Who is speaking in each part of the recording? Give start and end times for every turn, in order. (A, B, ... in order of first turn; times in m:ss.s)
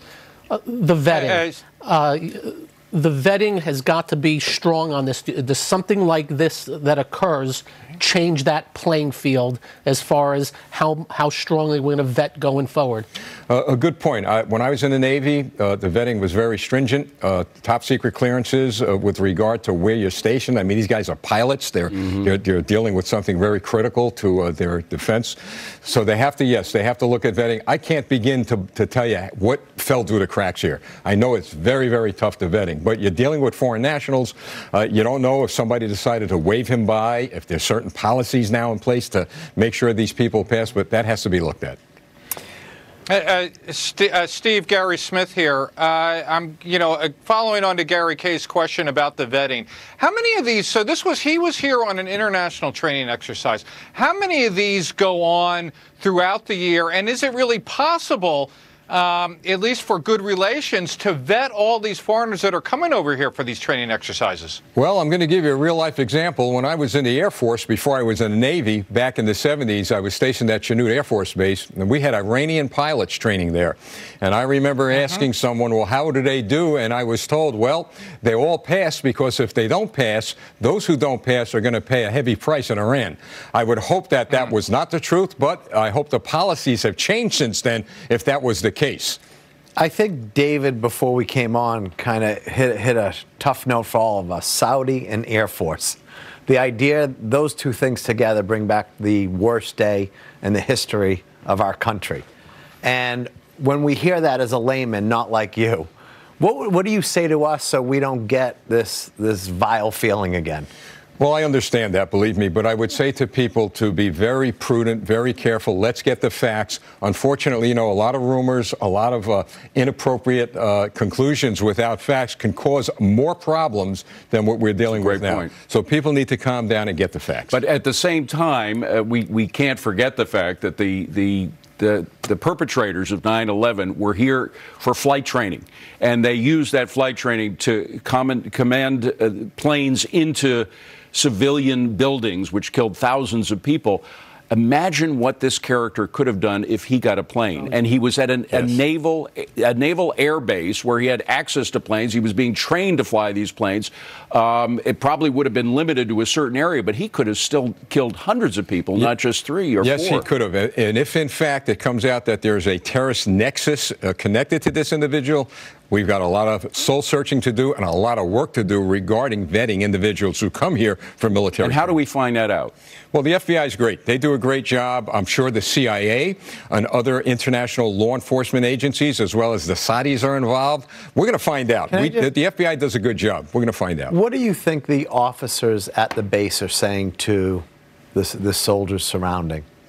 0:00.5-0:13.1 A
0:01.1-0:01.4 B
0:13.5-0:41.8 C
0:43.1-1:04.6 B
1:04.8-1:29.2 C
1:29.8-1:42.2 D
1:42.8-1:45.9 D
1:46.4-1:50.7 D
1:51.2-2:07.6 C
2:04.9-2:05.5 E
2:07.5-2:40.3 E
2:39.8-2:52.0 C
2:51.6-2:52.7 E
2:53.1-3:04.1 C
3:01.9-3:02.3 D
3:04.1-3:09.6 D